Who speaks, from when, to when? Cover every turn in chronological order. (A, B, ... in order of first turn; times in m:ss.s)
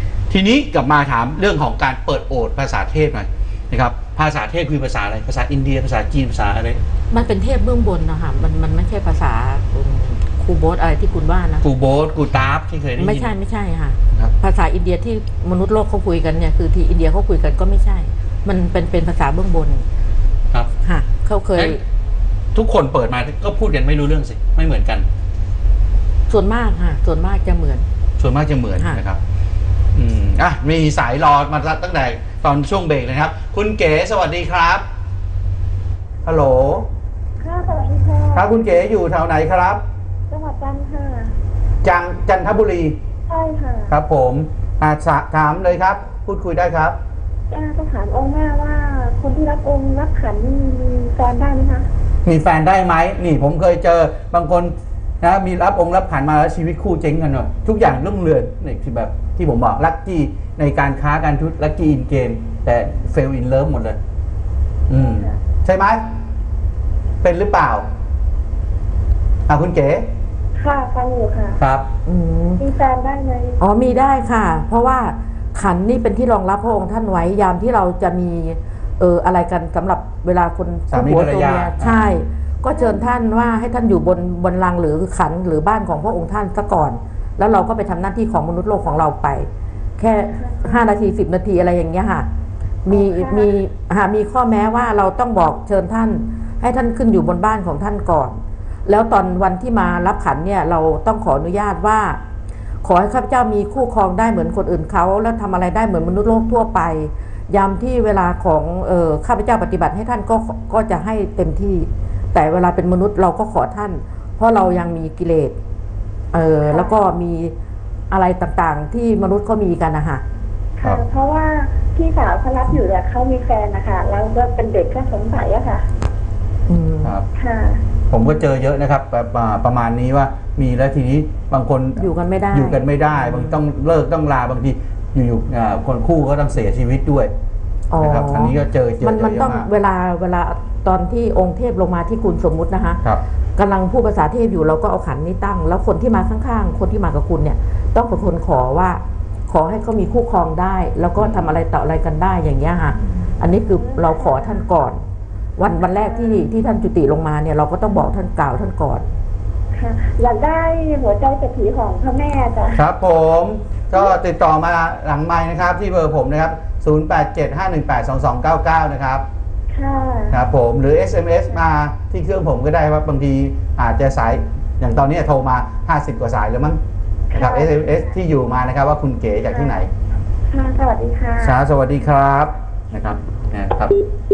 0:00.3-0:06.8 A
0:07.1-0:11.6 B
0:11.6-0:13.3 A
0:13.0-0:19.8 B
0:20.8-0:21.8 B
0:22.5-0:25.0 A
0:26.3-0:27.8 B
0:28.2-0:29.2 A
0:29.9-0:34.8 A
0:36.2-0:36.8 A
0:37.4-0:38.6 C
0:38.3-0:39.8 A
0:40.3-0:41.3 C
0:41.8-0:43.0 A
0:43.3-0:43.9 C
0:43.9-0:47.0 A
0:47.5-0:51.9 C
0:52.2-1:04.0 A
1:04.9-1:06.0 A
1:07.2-1:07.8 A
1:09.5-1:10.0 A
1:10.6-1:11.6 C
1:11.6-1:11.8 A
1:12.0-1:12.6 B
1:12.6-1:13.6 C
1:13.6-1:32.3 B
1:20.9-1:22.1 A
1:30.5-1:30.8 C
1:32.8-1:42.2 B
1:32.9-1:33.4 C
1:42.8-1:55.6 B
1:56.3-1:57.5 B
1:56.7-1:57.0 C
1:58.1-2:00.2 B
2:00.8-2:05.8 C
2:06.7-2:07.1 B
2:07.4-2:07.8 C
2:08.1-2:17.3 A
2:12.0-2:13.6 B
2:17.9-2:23.0 B
2:18.0-2:19.7 A
2:23.6-2:35.0 B
2:31.2-2:31.5 A
2:33.9-2:34.6 C
2:35.6-2:39.0 B
2:39.7-2:42.8 C
2:42.7-2:49.2 A
2:49.7-2:50.4 C
2:50.3-2:56.8 A
2:57.3-2:57.9 C
2:57.3-2:59.9 A
2:59.5-2:59.8 C
3:00.5-3:01.6 C
3:01.4-3:04.0 A